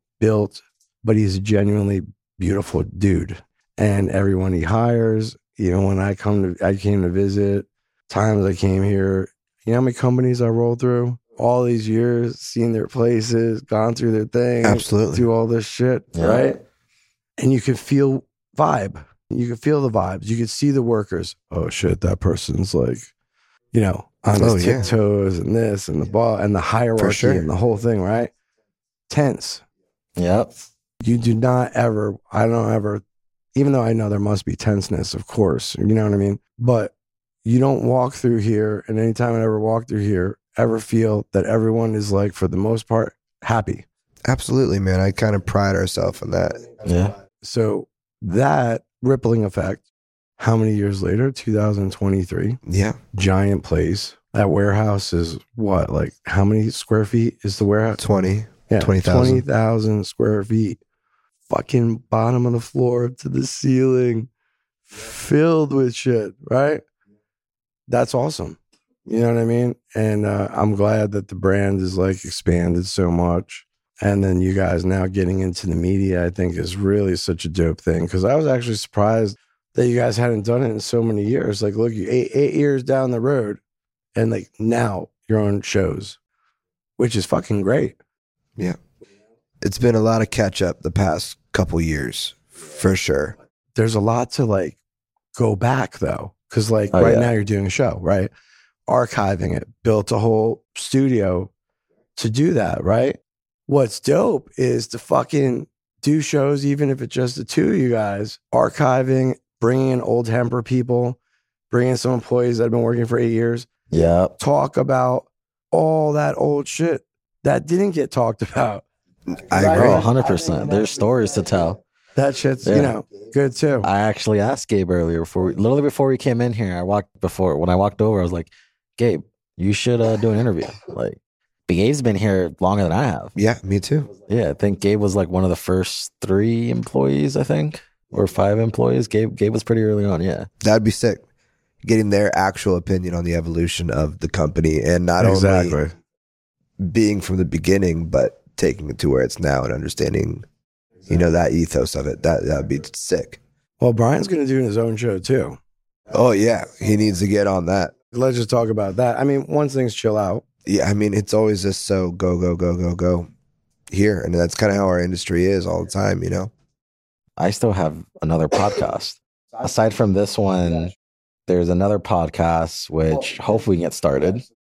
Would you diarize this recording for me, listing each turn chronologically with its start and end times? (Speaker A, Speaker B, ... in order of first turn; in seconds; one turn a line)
Speaker A: 0.2-16.6
Speaker B: 14.6-15.2
Speaker C: 16.1-16.5
Speaker A: 17.4-23.1
Speaker A: 23.7-28.3
Speaker B: 24.4-24.9
Speaker B: 27.0-27.5
Speaker A: 29.1-29.6
Speaker C: 30.2-30.5
Speaker A: 31.0-33.0
Speaker A: 33.5-36.9
Speaker A: 37.4-43.9
Speaker B: 44.2-46.7
Speaker C: 46.8-47.1
Speaker A: 47.4-49.9
Speaker A: 50.4-52.6
Speaker B: 52.6-53.0
Speaker A: 53.1-58.0
Speaker B: 58.0-59.4
Speaker A: 58.7-60.8
Speaker A: 61.5-64.3
Speaker A: 64.9-66.8
Speaker A: 67.9-83.6
Speaker A: 84.1-86.2
Speaker A: 87.0-88.0
Speaker B: 89.6-93.3
Speaker A: 93.8-94.8
Speaker A: 95.3-98.3
Speaker C: 96.9-97.3
Speaker A: 98.9-101.5
Speaker A: 102.2-111.2
Speaker A: 111.7-113.7
Speaker C: 113.9-114.3
Speaker A: 114.4-118.8
Speaker B: 119.3-120.1
Speaker A: 119.6-120.0
Speaker C: 119.7-121.8
Speaker A: 122.2-123.9
Speaker C: 122.7-122.9
Speaker C: 123.8-133.3
Speaker B: 133.4-134.1
Speaker C: 134.3-140.5
Speaker B: 140.6-141.2
Speaker B: 141.8-145.8
Speaker A: 145.2-145.9
Speaker B: 146.8-150.4
Speaker B: 151.1-153.4
Speaker A: 153.8-155.6
Speaker B: 156.1-157.9
Speaker A: 158.1-160.4
Speaker B: 160.6-163.3
Speaker B: 163.9-166.5
Speaker C: 167.4-170.9
Speaker C: 171.5-174.4